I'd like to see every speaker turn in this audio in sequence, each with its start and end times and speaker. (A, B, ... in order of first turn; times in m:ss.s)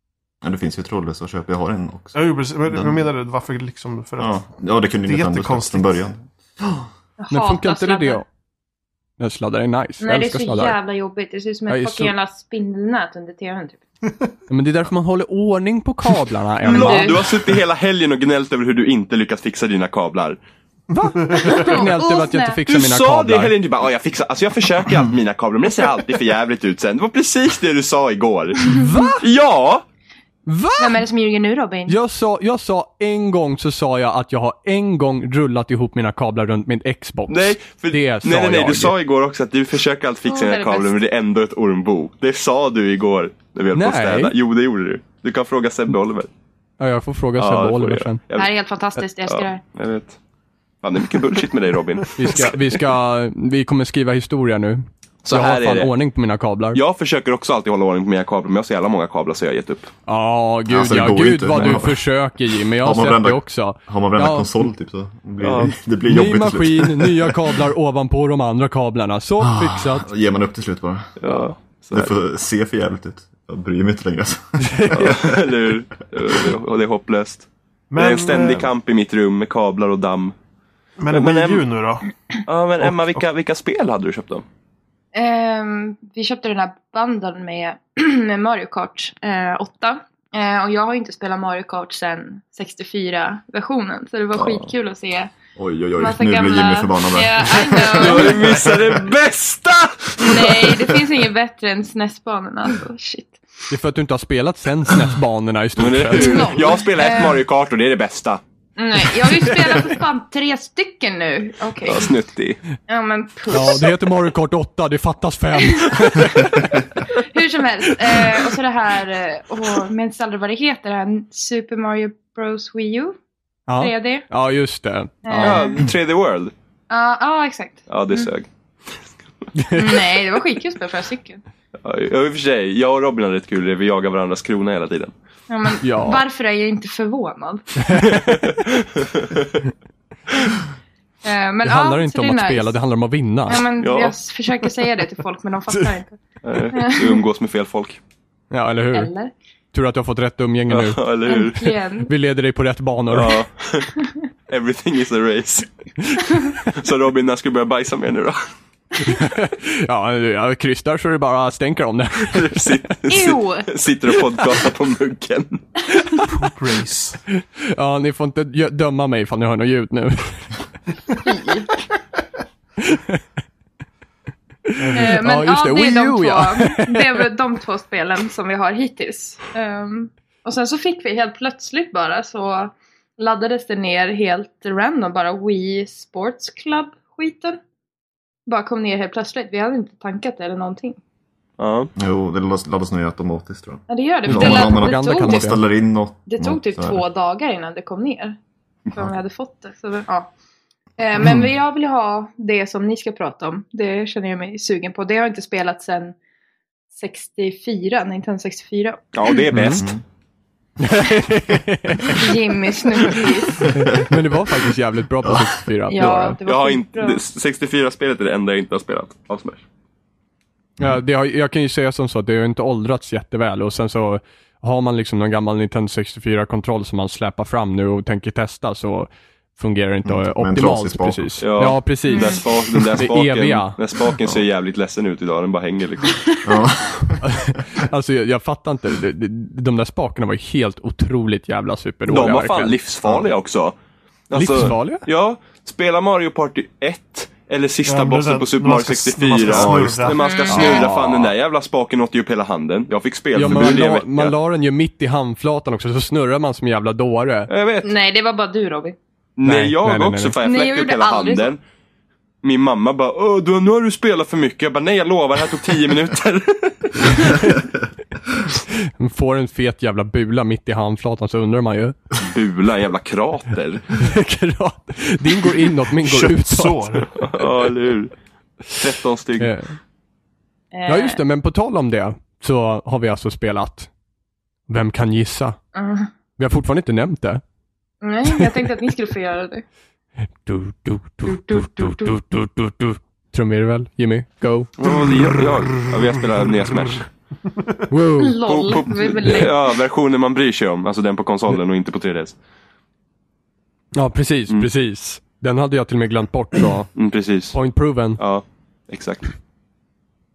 0:00.4-0:02.2 A
0:02.1-0:04.4 B
0:02.7-0:02.9 A
0:04.2-0:06.9 A
0:05.1-0:06.1 B
0:07.2-0:08.2 C
0:07.3-0:08.3 D
0:09.2-0:10.8 D
0:10.0-0:13.8 C
0:11.7-0:12.1 D
0:14.5-0:17.2 D
0:16.6-0:20.4 E
0:16.7-0:17.3 C
0:20.9-0:23.5 D
0:21.2-0:21.5 B
0:21.4-0:22.6 C
0:22.7-0:29.8 E
0:28.7-0:29.3 D
0:30.5-0:31.0 D
0:30.8-0:32.0 C
0:31.9-0:38.9 D
0:37.3-0:46.3 E
0:40.3-0:41.0 C
0:43.7-0:44.4 D
0:46.8-0:48.2 D
0:47.4-0:48.5 E
0:48.4-0:49.6 C
0:49.2-0:50.2 E
0:50.8-0:52.6 E
0:52.2-0:56.8 D
0:55.2-0:55.9 E
0:56.7-0:59.9 E
1:00.1-1:04.7 D
1:00.7-1:07.3 A
1:05.4-1:05.7 E
1:06.0-1:10.1 D
1:09.4-1:11.2 A
1:11.2-1:12.1 E
1:11.9-1:15.5 A
1:14.6-1:15.2 D
1:14.9-1:20.4 E
1:17.9-1:18.7 B
1:21.0-1:22.1 B
1:21.1-1:21.6 E
1:22.5-1:24.4 E
1:25.1-1:35.3 C
1:34.3-1:34.7 E
1:35.6-1:39.0 A
1:36.0-1:38.6 C
1:37.9-1:40.8 E
1:40.2-1:43.4 C
1:43.7-1:46.6 D
1:45.8-1:48.4 E
1:46.1-1:47.4 C
1:48.8-1:52.2 C
1:51.8-1:52.6 E
1:52.9-1:54.0 C
1:53.5-1:56.9 D
1:56.7-2:03.2 C
2:03.7-2:05.7 D
2:03.8-2:04.3 C
2:05.2-2:05.9 C
2:05.4-2:06.5 E
2:06.9-2:08.3 C
2:07.9-2:08.5 E
2:09.6-2:10.0 D
2:09.7-2:11.4 C
2:11.8-2:15.1 E
2:15.5-2:18.2 C
2:15.8-2:16.2 D
2:17.9-2:18.2 D
2:18.1-2:19.6 E
2:21.2-2:22.8 C
2:21.6-2:23.7 D
2:23.5-2:26.2 C
2:23.8-2:24.2 E
2:26.4-2:28.0 E
2:26.7-2:27.2 C
2:28.5-2:29.1 D
2:28.9-2:29.3 C
2:29.7-2:31.0 D
2:30.7-2:31.8 E
2:31.3-2:32.1 C
2:32.1-2:33.4 D
2:33.1-2:33.9 E
2:34.5-2:35.7 E
2:36.6-2:38.5 E
2:39.0-2:42.8 D
2:42.2-2:45.7 E
2:43.1-2:43.7 C
2:46.3-2:47.2 B
2:47.7-2:50.5 D
2:51.2-2:51.7 C
2:52.8-2:53.2 D
2:54.7-2:57.3 D
2:54.9-3:07.6 C
3:08.5-3:11.0 C
3:11.6-3:11.9 E
3:12.0-3:17.0 A
3:13.9-3:15.6 C
3:14.3-3:15.6 D
3:16.3-3:18.4 C
3:18.9-3:20.3 C
3:21.0-3:26.2 C
3:21.2-3:21.5 A
3:26.9-3:29.4 C
3:29.1-3:29.9 E
3:29.5-3:29.9 D
3:29.8-3:30.0 A
3:30.8-3:32.3 D
3:32.1-3:33.9 C
3:33.6-3:34.1 A
3:33.7-3:36.4 D
3:35.2-3:35.5 A
3:35.9-3:37.2 C
3:36.5-3:39.6 E
3:40.8-3:52.4 D
3:50.0-3:51.4 A
3:51.4-3:56.4 E
3:52.1-3:52.4 C
3:53.0-3:53.8 D
3:56.4-3:57.5 A
3:57.2-4:02.8 D
4:02.1-4:03.8 E
4:04.3-4:14.4 E
4:04.3-4:05.0 D
4:07.8-4:10.2 B
4:09.5-4:10.2 A
4:10.1-4:10.9 C
4:10.5-4:11.3 D
4:13.4-4:17.5 D
4:17.5-4:17.9 E
4:17.8-4:19.0 C
4:19.4-4:21.6 E
4:19.4-4:20.4 D
4:20.4-4:21.5 C
4:22.4-4:27.4 E
4:27.0-4:27.5 D
4:28.7-4:32.0 D
4:32.2-4:33.9 E
4:34.0-4:37.1 D
4:35.9-4:37.3 B
4:37.2-4:38.1 E
4:38.7-4:39.6 E
4:39.4-4:39.8 D
4:40.7-4:41.2 C
4:40.9-4:43.9 D
4:44.7-4:45.6 D
4:45.7-4:46.1 C
4:46.4-4:47.4 D
4:48.0-4:49.6 C
4:48.4-4:48.7 D
4:50.4-4:55.0 D
4:51.2-4:52.2 C
4:54.8-4:57.1 E
4:57.9-4:58.4 D
4:58.2-4:59.6 C
4:58.5-5:02.4 E
5:04.0-5:06.9 D
5:07.0-5:07.6 E
5:07.5-5:08.2 D
5:08.2-5:09.3 E